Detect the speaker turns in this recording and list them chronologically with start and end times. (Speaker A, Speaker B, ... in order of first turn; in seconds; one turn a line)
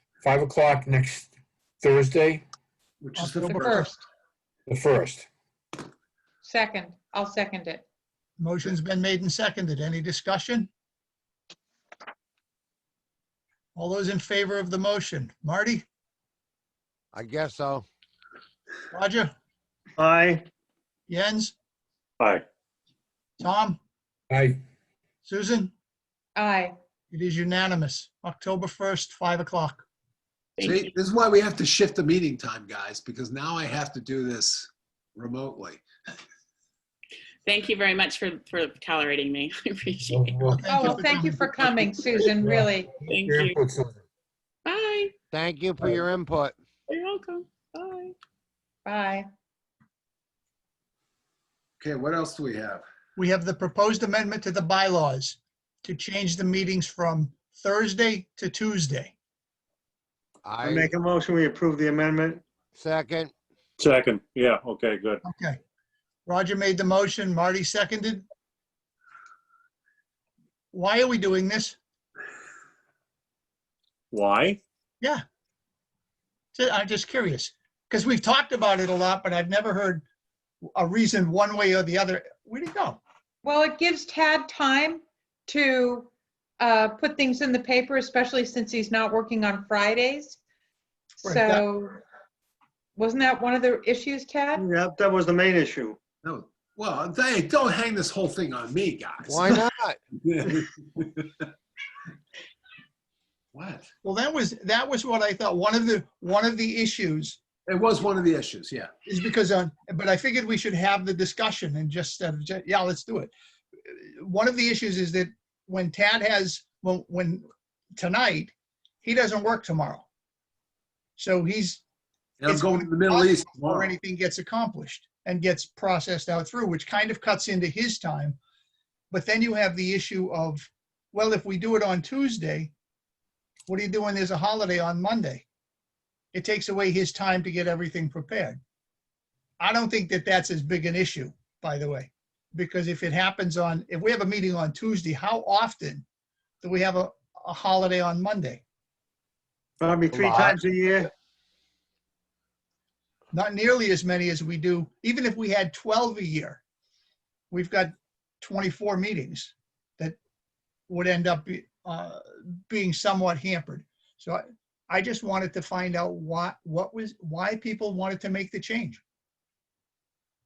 Speaker A: 0.2-2.5
Speaker B: 3.0-4.0
Speaker C: 3.2-3.9
Speaker D: 3.4-3.9
Speaker A: 4.7-5.3
Speaker D: 6.4-7.8
Speaker C: 8.4-10.7
Speaker C: 13.8-15.8
Speaker E: 17.1-17.9
Speaker C: 18.9-19.3
Speaker F: 20.0-20.4
Speaker C: 21.1-21.6
Speaker C: 23.4-23.8
Speaker A: 24.3-24.6
Speaker C: 25.2-25.7
Speaker D: 26.4-26.8
Speaker C: 27.1-29.9
Speaker G: 30.6-30.9
Speaker B: 30.6-35.9
Speaker G: 37.5-40.9
Speaker A: 40.1-40.8
Speaker C: 40.5-41.7
Speaker D: 40.7-42.9
Speaker A: 42.4-44.0
Speaker G: 43.1-43.6
Speaker G: 44.7-45.1
Speaker E: 45.3-46.5
Speaker G: 46.9-48.1
Speaker D: 48.9-49.3
Speaker B: 51.8-52.9
Speaker C: 53.2-59.1
Speaker E: 60.5-60.9
Speaker F: 60.6-62.4
Speaker E: 62.8-63.3
Speaker H: 63.8-65.2
Speaker C: 65.2-65.6
Speaker C: 66.3-68.2
Speaker C: 70.7-71.8
Speaker H: 74.1-74.6
Speaker C: 76.5-80.0
Speaker C: 80.8-83.0
Speaker D: 83.4-90.4
Speaker D: 91.2-91.9
Speaker C: 91.2-91.7
Speaker D: 93.0-94.7
Speaker F: 94.5-96.0
Speaker B: 96.2-99.7
Speaker E: 99.3-100.0
Speaker B: 100.2-101.4
Speaker B: 103.5-103.9
Speaker C: 104.0-107.4
Speaker B: 107.7-108.9
Speaker C: 109.1-113.3
Speaker C: 113.9-120.1
Speaker C: 121.2-121.8
Speaker B: 122.4-123.9
Speaker C: 122.5-128.4
Speaker C: 129.1-132.7
Speaker C: 133.7-135.4
Speaker C: 136.3-138.6
Speaker C: 139.6-146.1
Speaker C: 146.6-148.6
Speaker F: 149.8-151.1
Speaker E: 150.1-150.6
Speaker C: 153.3-156.6
Speaker C: 157.5-160.2
Speaker C: 160.9-169.0